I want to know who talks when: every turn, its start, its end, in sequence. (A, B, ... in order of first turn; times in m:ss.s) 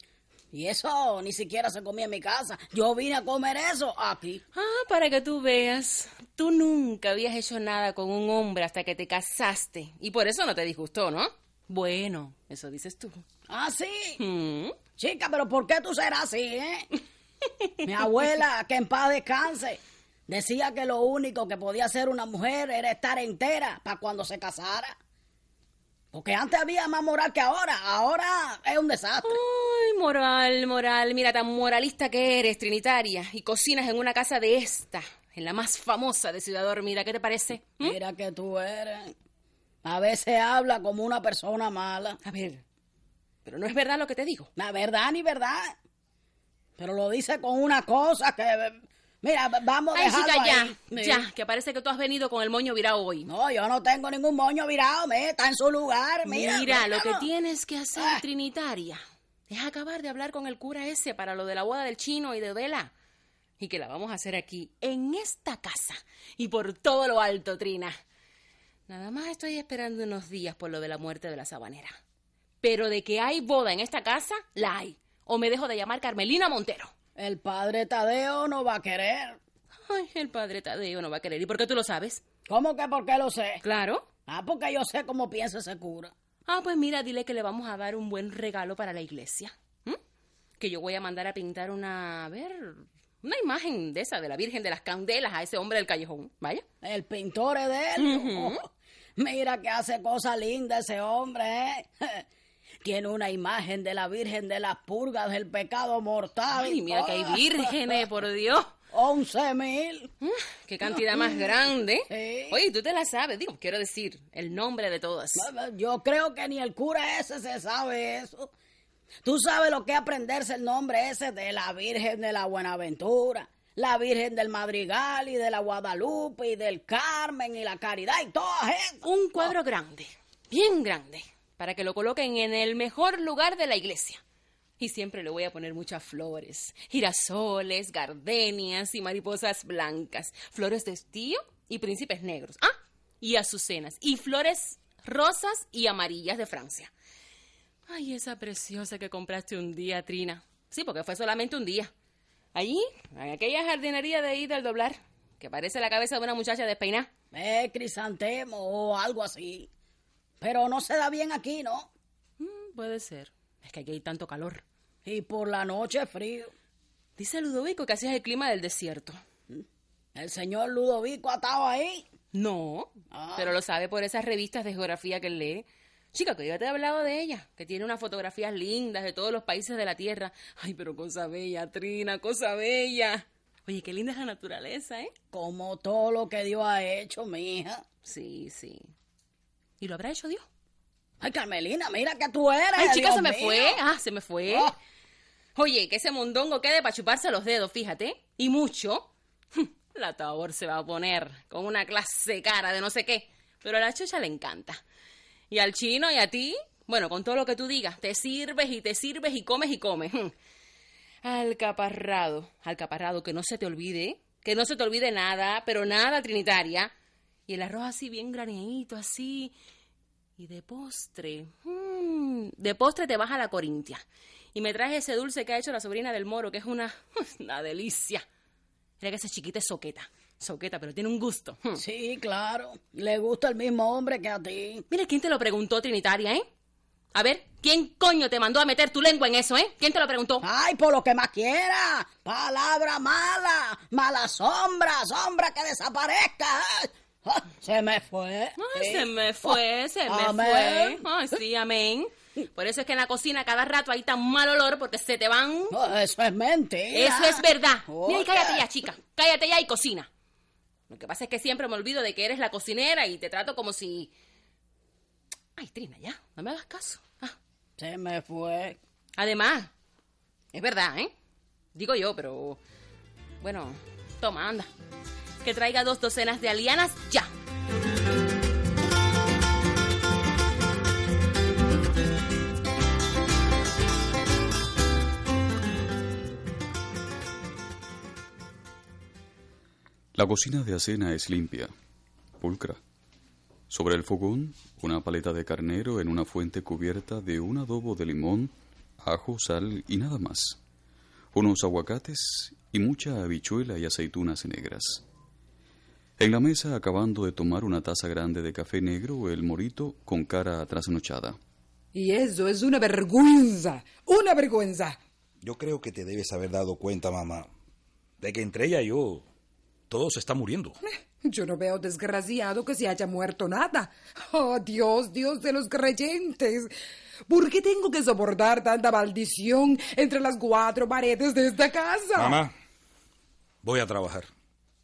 0:00.5-0:04.4 A
0:04.5-0:13.2 B
0:13.5-0:14.2 A
0:14.2-0:14.8 B
0:15.0-0:16.9 A
0:17.9-0:25.0 A
0:26.1-0:29.4 A
0:29.2-0:38.0 B
0:37.8-0:39.1 A
0:39.8-0:42.2 A
0:42.2-0:42.6 B
0:43.4-0:44.5 B
0:44.6-0:45.8 A
0:46.8-0:51.3 A
0:49.9-0:53.3 B
0:53.3-0:57.3 A
0:56.2-1:02.9 B
0:58.0-0:58.2 A
1:03.6-1:08.0 B
1:08.9-1:12.0 B
1:12.6-1:16.9 B
1:17.2-1:19.4 A
1:19.9-1:22.2 B
1:22.5-1:23.6 A
1:23.6-1:24.1 B
1:24.3-1:26.1 A
1:26.5-1:30.0 B
1:30.6-1:36.6 B
1:36.8-1:38.6 A
1:38.0-1:38.6 B
1:39.2-1:42.3 A
1:42.8-1:48.0 A
1:46.6-1:48.7 B
1:48.9-1:50.1 A
1:50.2-1:55.5 B
1:50.8-1:52.6 A
1:55.4-1:58.5 A
1:59.2-2:09.5 A
2:09.0-2:14.2 B
2:14.8-2:22.7 B
2:23.2-2:26.9 B
2:27.9-2:31.9 B
2:32.5-2:37.1 B
2:37.3-2:39.7 A
2:40.4-2:41.9 A
2:42.4-2:44.6 B
2:45.0-2:46.5 A
2:47.2-2:49.2 B
2:49.5-2:52.1 A
2:52.3-3:05.1 B
2:53.1-2:53.5 A
3:05.3-3:07.8 A
3:08.0-3:08.9 B
3:09.8-3:10.5 B
3:11.2-3:13.8 A
3:12.8-3:14.7 B
3:14.5-3:14.7 A
3:15.6-3:24.8 B
3:25.5-3:30.3 B
3:31.2-3:36.9 B
3:37.5-3:39.5 B
3:40.4-3:48.2 B
3:49.0-3:51.8 B
3:51.8-3:54.8 A
3:54.9-3:56.4 B
3:57.2-4:00.5 B
4:00.4-4:09.5 A
4:08.6-4:15.8 B
4:10.1-4:11.0 A
4:15.7-4:18.7 A
4:16.9-4:20.1 B
4:20.9-4:24.1 B
4:25.6-4:27.4 B
4:27.8-4:28.8 A
4:29.2-4:29.7 B
4:30.5-4:31.1 B
4:31.7-4:32.6 B
4:33.4-4:34.7 B
4:35.4-4:37.3 B
4:50.2-4:51.7 C
4:52.4-4:52.8 C
4:53.7-5:00.6 C
5:01.3-5:05.0 C
5:06.2-5:11.4 C
5:11.9-5:15.0 D
5:15.4-5:17.5 E
5:18.2-5:19.3 E
5:19.9-5:20.8 E
5:20.8-5:26.7 D
5:27.3-5:32.4 D
5:32.2-5:32.5 E
5:33.6-5:34.3 E